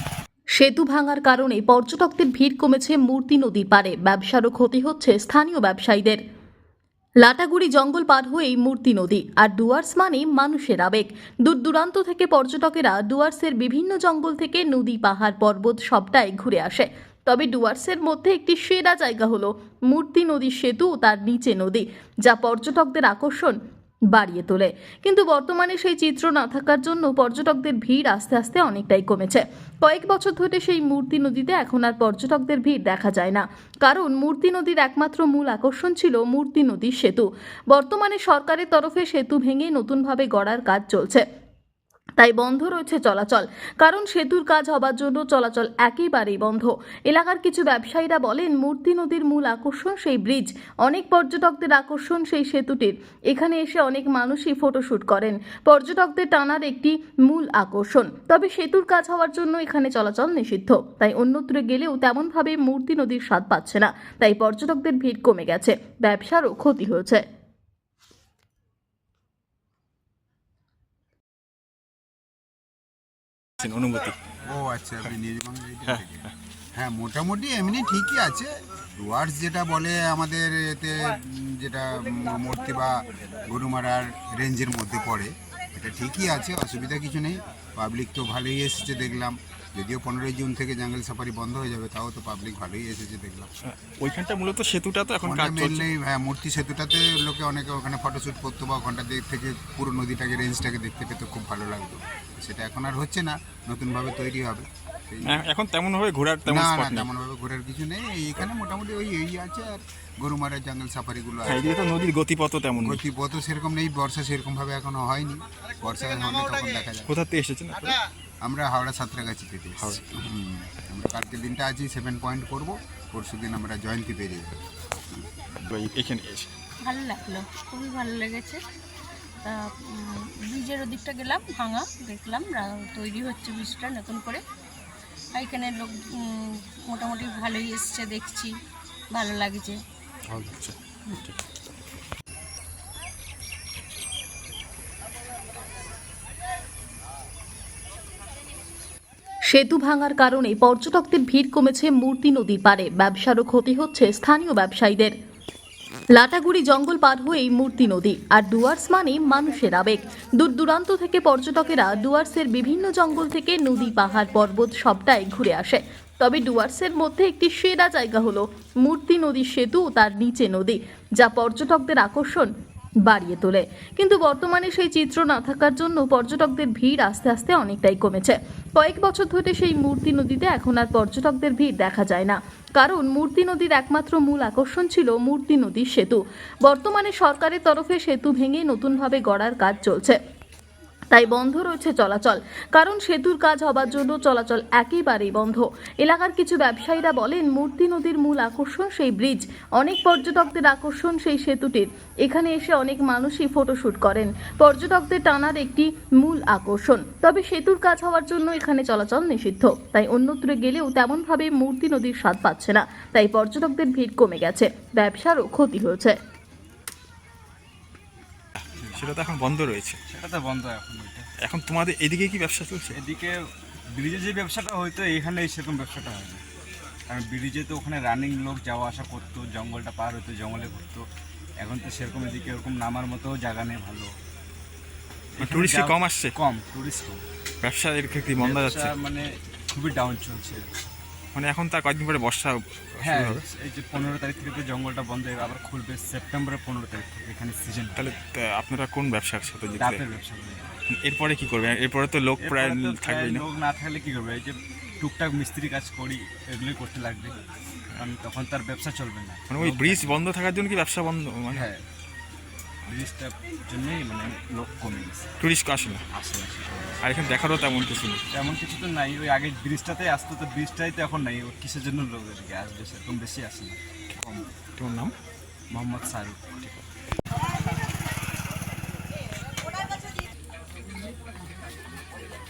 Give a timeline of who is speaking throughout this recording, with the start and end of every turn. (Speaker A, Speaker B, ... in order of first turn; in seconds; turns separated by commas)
Speaker A: 0.6-6.2, Speaker A: 7.2-23.6, Speaker A: 24.1-41.2, Speaker A: 42.2-67.2, Speaker B: 73.6-74.2, Speaker C: 74.5-93.5, Speaker B: 93.7-95.9, Speaker C: 95.2-105.4, Speaker B: 105.3-107.1, Speaker C: 106.5-111.8, Speaker B: 111.5-113.0, Speaker C: 112.8-117.1, Speaker B: 117.1-118.0, Speaker C: 118.4-124.5, Speaker B: 125.6-126.5, Speaker D: 126.8-128.6, Speaker D: 129.4-134.4, Speaker D: 135.3-138.5, Speaker D: 139.1-139.8, Speaker B: 140.3-141.3, Speaker A: 149.5-155.1, Speaker A: 156.1-172.5, Speaker A: 173.1-190.2, Speaker A: 191.1-216.2, Speaker B: 218.9-220.0, Speaker E: 220.1-221.3, Speaker B: 221.4-222.9, Speaker E: 222.9-223.4, Speaker E: 223.9-226.4, Speaker E: 227.1-231.0, Speaker E: 231.6-234.1, Speaker E: 235.4-237.2, Speaker B: 235.4-236.3, Speaker B: 237.6-238.9, Speaker E: 238.3-240.6, Speaker B: 241.3-243.4, Speaker E: 243.0-248.1, Speaker B: 247.9-250.0, Speaker E: 249.8-250.7, Speaker B: 251.0-253.4, Speaker E: 252.4-257.4, Speaker E: 258.0-260.2, Speaker B: 259.5-261.6, Speaker E: 261.5-261.8, Speaker E: 262.9-265.3, Speaker B: 265.4-266.0, Speaker E: 266.1-267.2, Speaker B: 267.0-268.2, Speaker E: 268.3-273.8, Speaker B: 274.1-275.1, Speaker E: 275.7-276.8